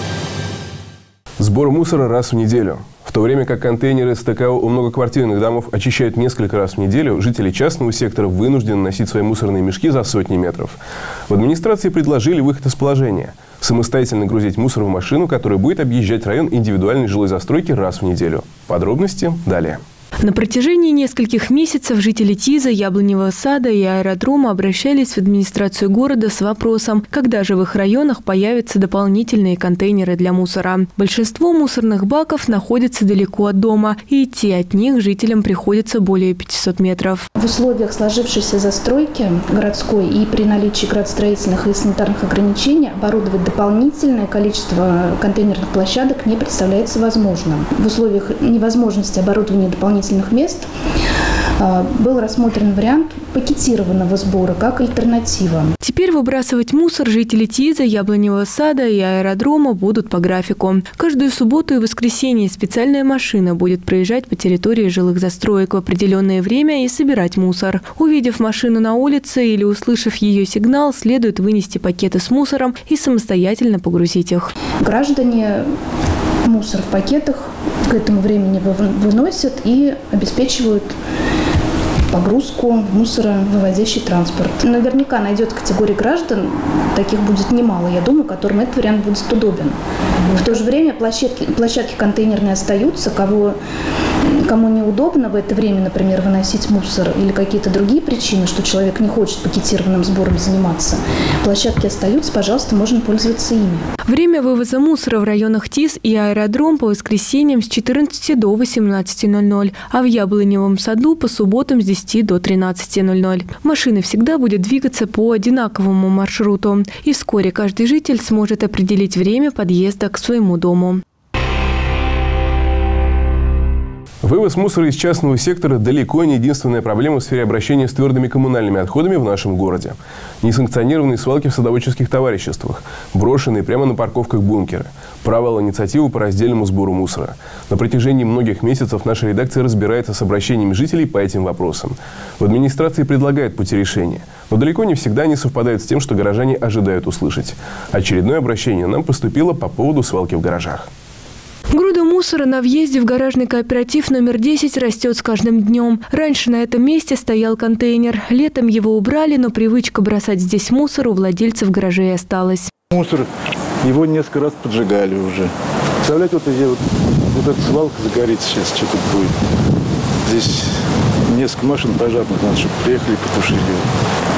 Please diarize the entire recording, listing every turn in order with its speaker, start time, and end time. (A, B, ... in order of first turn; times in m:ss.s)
0:01.4-0:19.8 A
0:20.2-0:37.2 B
0:37.4-0:50.6 C
0:51.6-0:55.7 C
0:55.8-1:14.5 B
1:14.8-1:15.6 C
1:16.4-1:20.9 C
1:22.1-1:29.7 C
1:30.3-1:33.5 C
1:34.2-1:43.8 C
1:44.0-2:01.0 B
2:04.2-2:30.9 A
2:31.7-2:42.7 B
2:42.9-2:43.3 D
2:43.8-2:45.5 D
2:46.0-2:49.3 D
2:50.2-2:50.7 D
2:51.3-2:53.8 D